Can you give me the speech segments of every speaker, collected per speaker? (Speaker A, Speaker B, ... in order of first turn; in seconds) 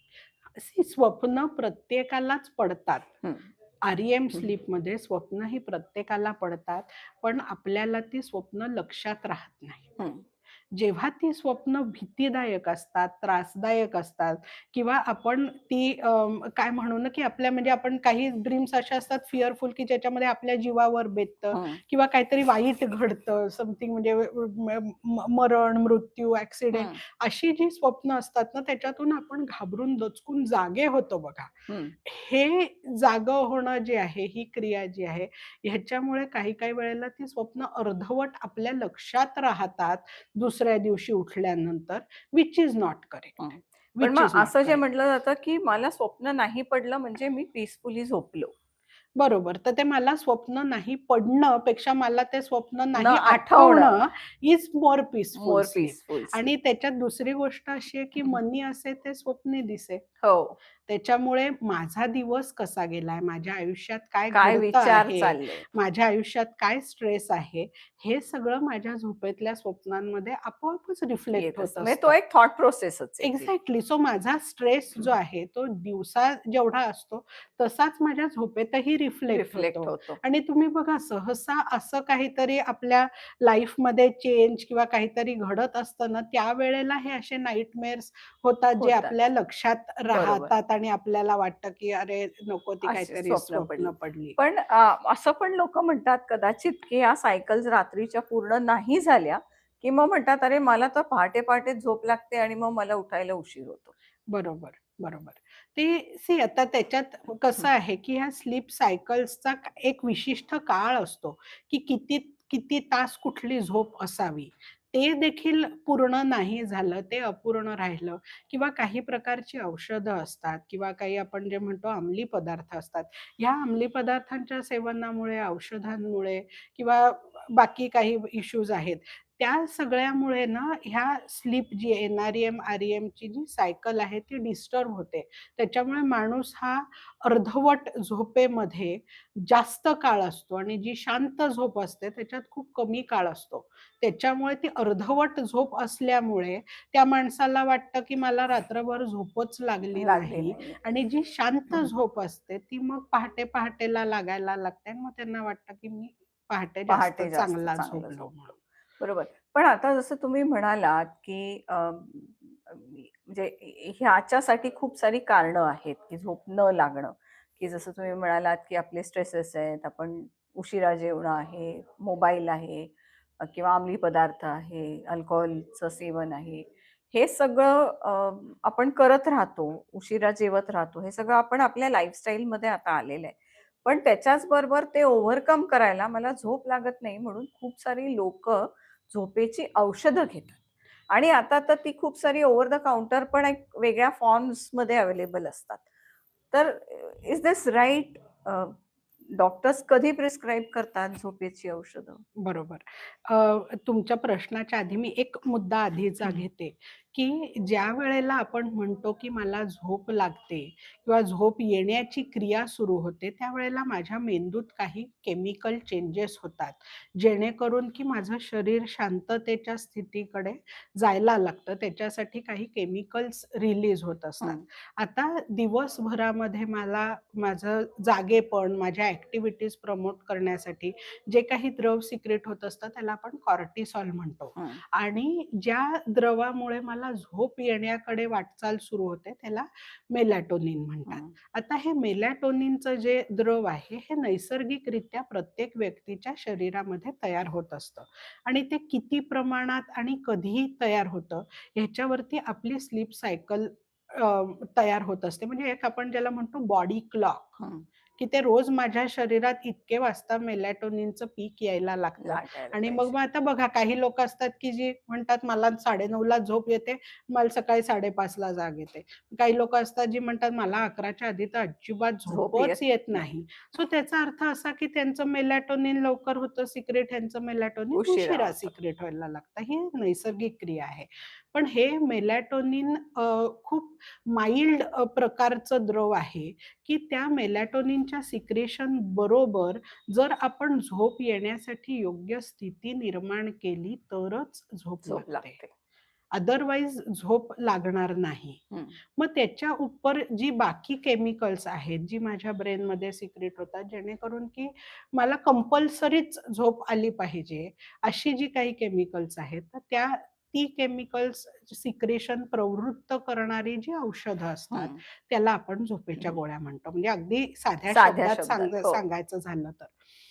Speaker A: 0.6-3.1, 3.8-10.0, 10.7-44.8, 49.2-60.0, 60.9-72.1, 73.2-94.4, 104.3-158.5, 202.4-257.6, 258.2-295.6, 296.3-319.9
Speaker B: 3.2-3.5, 10.0-10.2, 21.5-21.8, 26.7-27.0, 31.7-31.9, 43.4-48.5, 52.9-54.0, 55.4-56.5, 60.2-60.6, 64.3-65.7, 71.3-73.5, 79.3-80.2, 88.8-89.1, 90.1-90.5, 92.8-103.9, 149.9-150.8, 156.9-158.3, 159.0-195.8, 196.5-198.8, 199.3-202.2, 234.6-234.8, 241.1-241.3, 257.6-257.9, 262.2-263.1, 272.3-273.2, 277.9-278.7, 295.1-295.7, 314.7-315.0, 317.9-319.0